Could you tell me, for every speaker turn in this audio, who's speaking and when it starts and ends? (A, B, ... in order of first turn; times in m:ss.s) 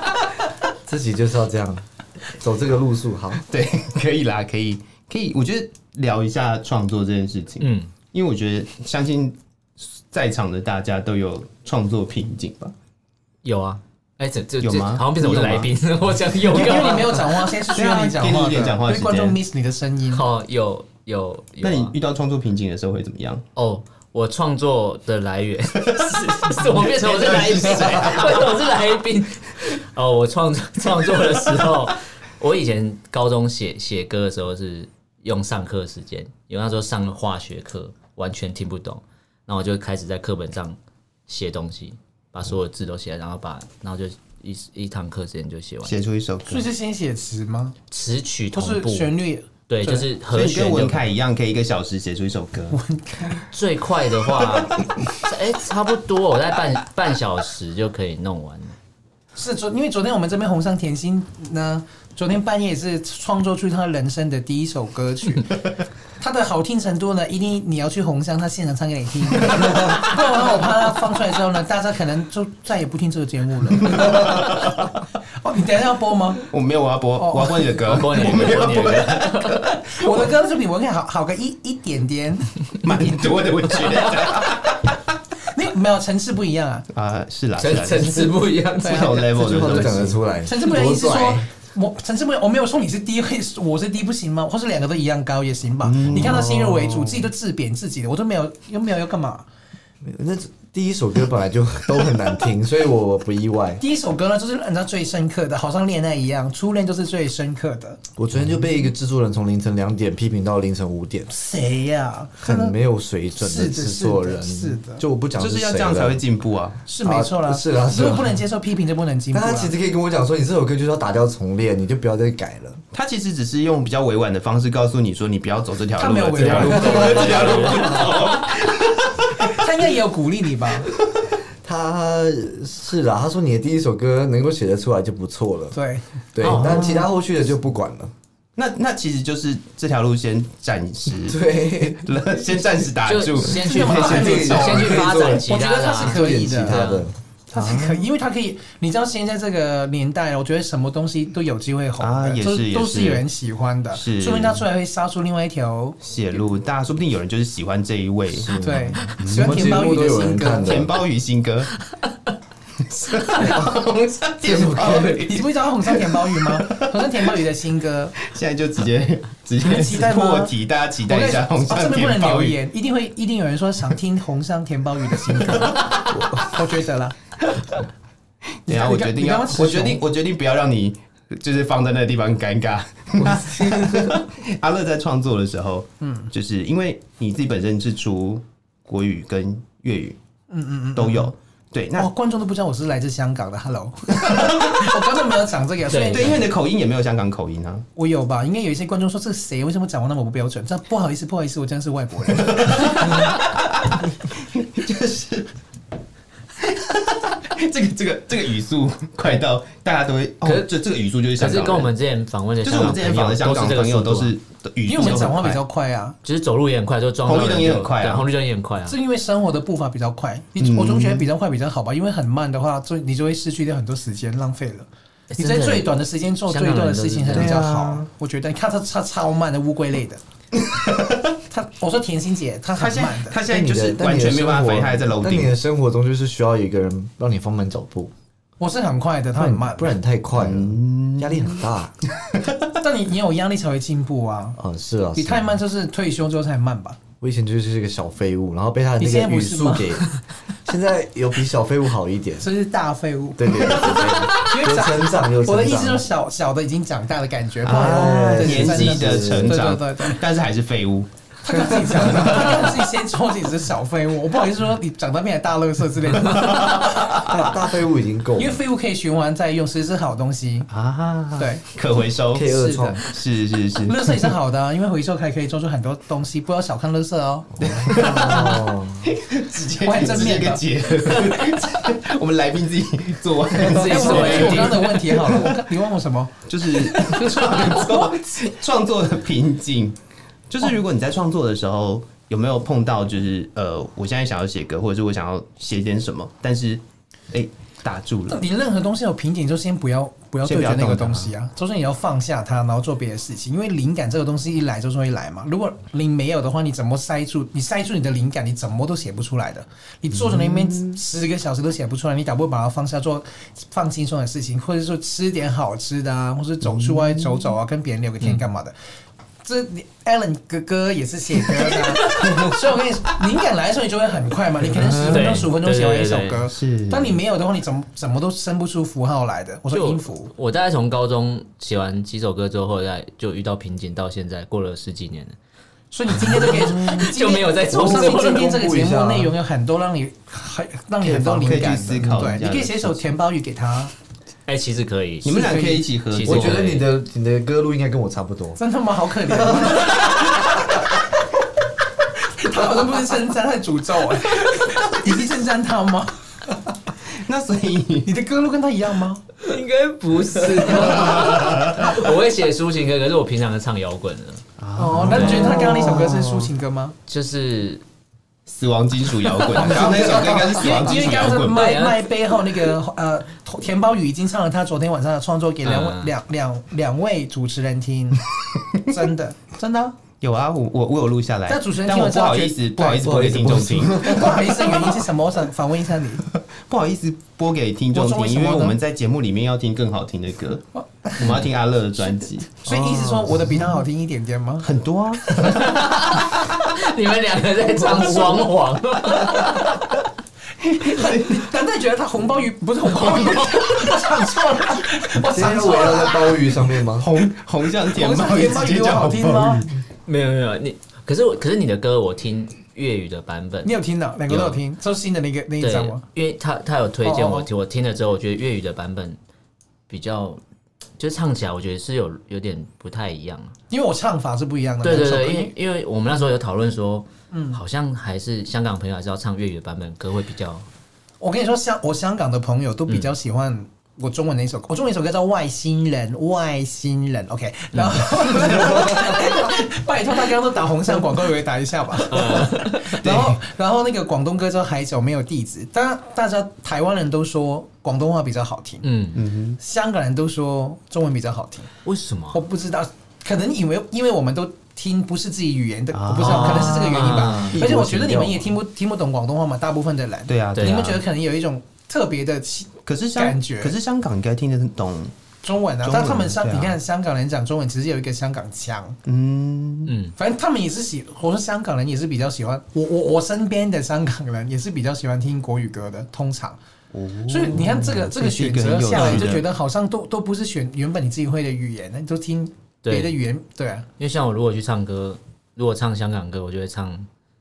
0:00.8-0:03.4 A
0:03.4-0:12.7 B
0:07.6-0:07.9 C
0:13.4-0:17.3 C
0:14.6-0:15.7 B
0:16.5-0:20.2 D
0:16.7-0:19.4 B
0:20.1-0:21.9 C
0:21.6-0:23.4 B
0:23.6-0:40.8 C
0:25.9-0:28.6 B
0:41.3-0:46.0 C
0:45.8-0:46.7 B
0:46.5-0:47.8 D
0:47.9-0:49.2 C
0:48.5-0:50.1 D
0:49.7-0:51.1 C
0:50.3-0:52.8 B
0:52.7-0:53.4 D
0:53.5-0:58.8 C
0:59.4-1:05.6 D
1:06.2-1:14.5 D
1:13.8-1:14.9 B
1:15.4-1:16.5 D
1:16.4-1:20.3 B
1:17.2-1:17.8 D
1:17.8-1:19.6 C
1:19.8-1:22.5 D
1:22.8-1:24.9 B
1:25.5-1:26.9 D
1:26.9-1:30.2 B
1:27.6-1:29.6 C
1:28.8-1:29.2 D
1:29.4-1:31.5 A
1:30.4-1:39.5 D
1:35.8-1:36.5 B
1:36.1-1:37.3 A
1:40.0-1:43.8 A
1:43.8-1:48.0 D
1:48.2-1:51.3 A
1:51.3-1:52.8 D
1:52.4-1:56.2 A
1:53.4-1:55.0 D
1:55.4-1:56.8 B
1:56.9-1:59.7 D
1:57.0-1:58.4 A
1:59.3-2:02.8 A
2:02.9-2:09.6 B
2:06.0-2:07.9 D
2:06.5-2:08.2 A
2:06.5-2:08.3 C
2:09.4-2:10.9 D
2:11.6-2:15.8 A
2:15.7-2:16.1 D
2:16.3-2:18.1 A
2:16.4-2:17.0 C
2:16.5-2:17.0 B
2:18.6-2:24.9 B
2:21.2-2:22.1 A
2:23.0-2:27.1 C
2:23.6-2:26.9 D
2:24.0-2:27.1 A
2:27.5-2:36.0 D
2:27.5-2:28.1 B
2:32.0-2:33.2 B
2:33.9-2:34.6 B
2:36.0-2:38.6 B
2:38.3-2:41.0 A
2:38.6-2:40.9 D
2:39.2-2:39.8 B
2:40.6-2:41.7 B
2:42.8-2:47.1 B
2:44.4-2:45.3 A
2:45.1-2:48.2 D
2:48.2-2:52.6 B
2:49.6-2:50.5 D
2:51.1-2:57.1 D
2:55.4-2:55.8 B
2:56.1-2:56.4 A
2:58.7-3:00.0 D
2:58.7-3:10.2 B
3:06.0-3:06.3 D
3:10.5-3:11.3 D
3:11.0-3:12.1 B
3:12.0-3:16.4 D
3:14.1-3:14.9 B
3:15.9-3:16.4 C
3:16.1-3:17.9 B
3:18.0-3:23.3 D
3:22.4-3:25.5 B
3:26.6-3:31.9 B
3:30.4-3:30.7 C
3:31.4-3:34.3 C
3:32.6-3:35.6 B
3:34.9-3:36.2 D
3:36.2-3:39.0 C
3:37.2-3:38.3 B
3:38.9-3:50.2 D
3:40.6-3:41.3 B
3:45.3-3:47.6 C
3:47.3-3:48.1 B
3:50.6-3:51.3 B
3:51.5-3:53.4 D
3:52.8-3:55.5 B
3:53.5-3:58.1 A
3:58.6-4:00.0 D
3:59.4-4:02.0 A
4:00.3-4:01.6 B
4:02.2-4:02.7 B
4:02.8-4:04.6 D
4:04.6-4:05.6 A
4:05.2-4:07.0 D
4:07.2-4:10.1 A
4:09.0-4:10.0 D
4:10.6-4:12.5 A
4:12.4-4:20.2 D
4:13.4-4:16.1 A
4:17.6-4:21.1 B
4:17.7-4:19.6 A
4:21.4-4:27.3 D
4:21.9-4:22.8 B
4:26.1-4:27.4 B
4:27.2-4:28.6 A
4:28.4-4:30.7 D
4:30.7-4:34.2 B
4:31.4-4:31.6 D
4:32.3-4:33.0 A
4:32.5-4:33.0 D
4:33.8-4:38.6 D
4:37.6-4:45.6 B
4:37.6-4:39.2 A
4:39.8-4:40.6 D
4:43.6-4:45.4 C
4:43.8-4:48.6 D
4:46.5-4:50.0 B
4:50.5-4:58.4 B
4:58.3-5:18.7 D
5:00.4-5:01.3 B
5:10.1-5:11.0 B
5:16.6-5:17.4 B
5:19.4-5:30.3 D
5:22.1-5:22.6 B
5:24.6-5:25.5 B
5:25.1-5:26.5 C
5:26.5-5:27.2 B
5:29.7-5:35.4 C
5:35.9-5:43.9 D
5:36.1-5:38.5 C
5:37.7-5:39.3 A
5:41.0-5:43.0 B
5:44.5-5:45.5 C
5:45.2-5:46.7 B
5:45.3-5:45.9 D
5:46.1-5:46.9 C
5:46.2-5:48.6 A
5:48.6-5:51.0 D
5:49.3-5:50.1 A
5:52.2-5:56.2 D
5:57.1-5:58.1 B
5:58.0-5:59.3 D
5:59.4-6:04.4 C
6:00.6-6:01.1 D
6:00.7-6:02.0 B
6:04.6-6:05.7 B
6:04.8-6:07.0 D
6:05.0-6:05.6 C
6:05.1-6:06.5 A
6:07.1-6:07.8 C
6:08.5-6:11.7 B
6:09.6-6:18.2 D
6:09.8-6:10.5 A
6:11.1-6:12.1 C
6:15.6-6:16.1 C
6:18.8-6:20.0 D
6:20.2-6:25.0 B
6:21.5-6:26.2 D
6:23.0-6:24.6 A
6:26.5-6:30.6 B
6:27.9-6:28.8 D
6:30.8-6:31.4 D
6:31.2-6:32.6 B
6:32.6-6:34.7 D
6:32.7-6:33.6 A
6:34.6-6:36.2 B
6:35.3-6:39.9 C
6:37.9-6:38.3 A
6:40.6-6:46.6 D
6:40.8-6:41.5 B
6:45.2-6:47.1 A
6:47.0-6:49.7 B
6:47.9-6:49.6 D
6:50.1-6:53.7 C
6:53.6-6:56.0 D
6:54.3-6:54.6 C
6:55.6-6:59.2 C
6:57.0-6:57.5 D
6:59.9-7:00.4 C
7:01.0-7:03.6 C
7:03.7-7:05.5 D
7:04.8-7:10.7 C
7:07.3-7:07.6 D
7:11.2-7:28.9 D
7:22.1-7:22.9 C
7:23.0-7:23.4 B
7:28.8-7:29.2 C
7:29.1-7:29.6 B
7:29.6-7:31.7 D
7:31.8-7:32.4 C
7:32.3-7:43.8 D
7:35.9-7:36.9 B
7:36.2-7:37.6 C
7:37.1-7:38.5 A
7:40.3-7:41.0 B
7:40.6-7:40.9 C
7:42.9-7:45.1 B
7:45.4-7:49.0 D
7:45.9-7:46.7 B
7:49.1-7:50.0 B
7:49.9-7:50.1 C
7:50.2-7:56.6 D
7:56.9-7:59.5 B
7:57.3-8:03.9 D
7:59.0-7:59.2 C
8:02.8-8:03.2 C
8:04.0-8:07.1 C